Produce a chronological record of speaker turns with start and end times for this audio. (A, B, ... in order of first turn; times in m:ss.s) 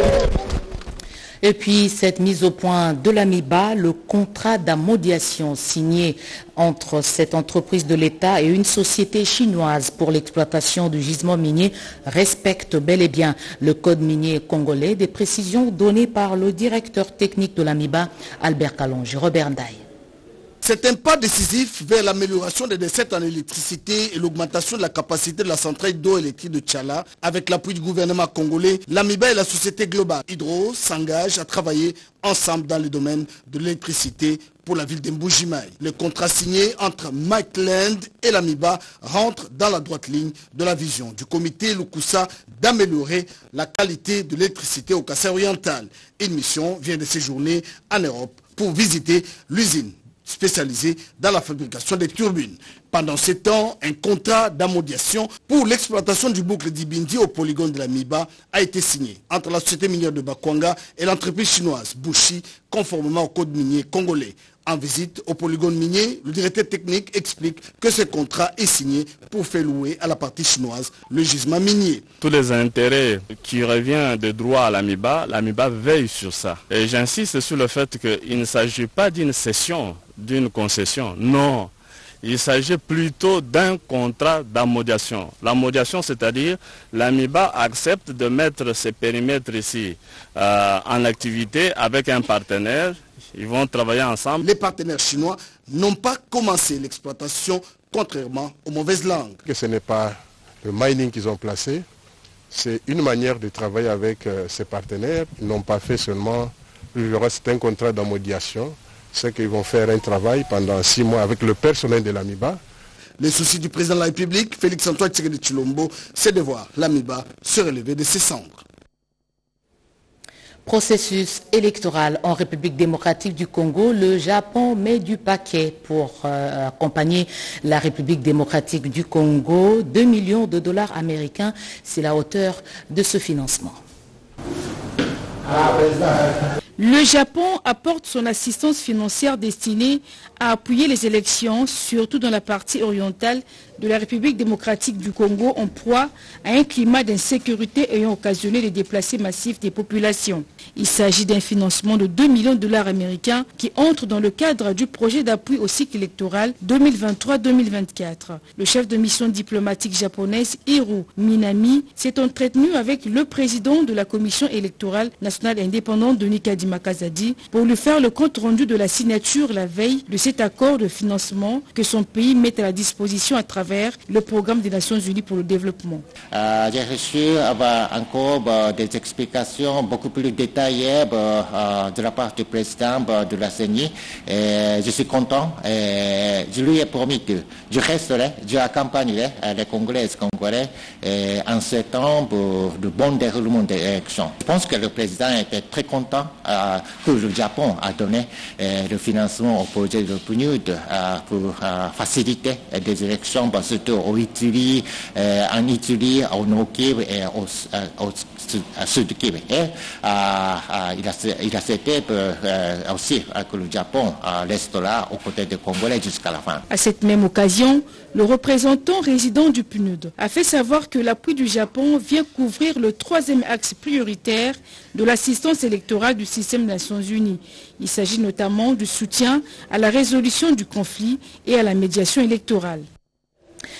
0:01.4-0:19.8 A
0:20.6-1:12.0 B
1:12.2-1:21.7 C
1:22.2-1:34.4 C
1:34.4-1:39.4 B
1:39.5-1:41.8 D
1:42.5-1:52.6 D
1:53.2-1:58.6 B
2:00.6-2:13.8 A
2:16.8-2:56.0 E
2:56.3-3:36.6 F
3:36.7-3:52.9 E